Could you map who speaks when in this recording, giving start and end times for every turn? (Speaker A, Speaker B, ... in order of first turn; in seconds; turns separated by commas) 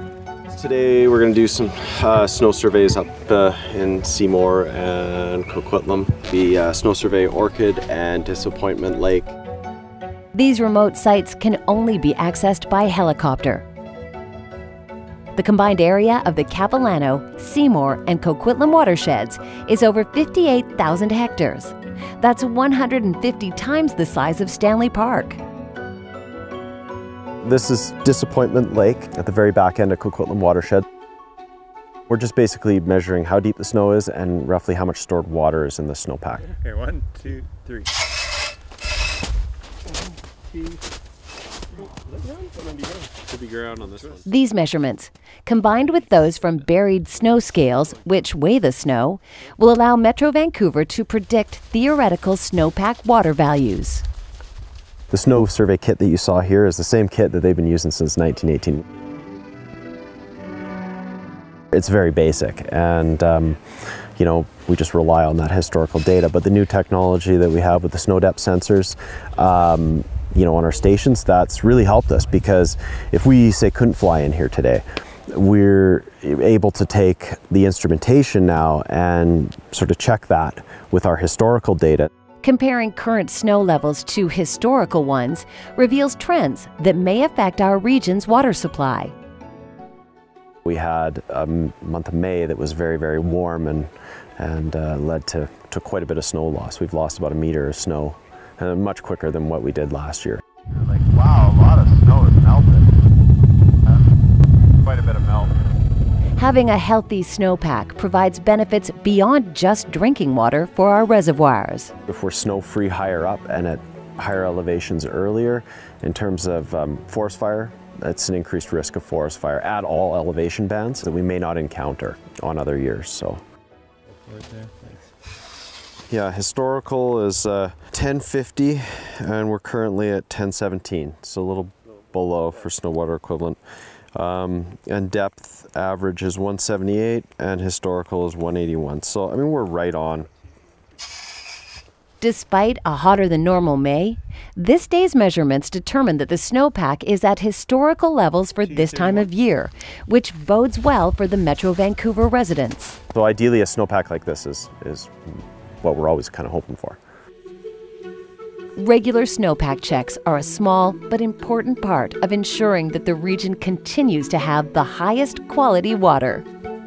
Speaker A: 0.5-9.3, Speaker B: 10.3-13.7, Speaker B: 15.3-25.4, Speaker A: 27.4-30.8, Speaker A: 32.1-36.5, Speaker C: 36.5-37.9, Speaker A: 43.2-44.2, Speaker B: 44.2-54.0, Speaker A: 55.1-58.8, Speaker A: 61.7-82.1, Speaker B: 82.4-89.1, Speaker A: 90.6-102.8, Speaker A: 104.8-105.5, Speaker B: 106.4-111.9, Speaker A: 112.1-123.4, Speaker C: 124.2-125.0, Speaker A: 126.1-133.6, Speaker A: 134.1-140.3, Speaker B: 142.2-153.0, Speaker C: 148.6-149.3, Speaker A: 153.1-155.1, Speaker A: 155.8-157.0, Speaker B: 158.8-166.4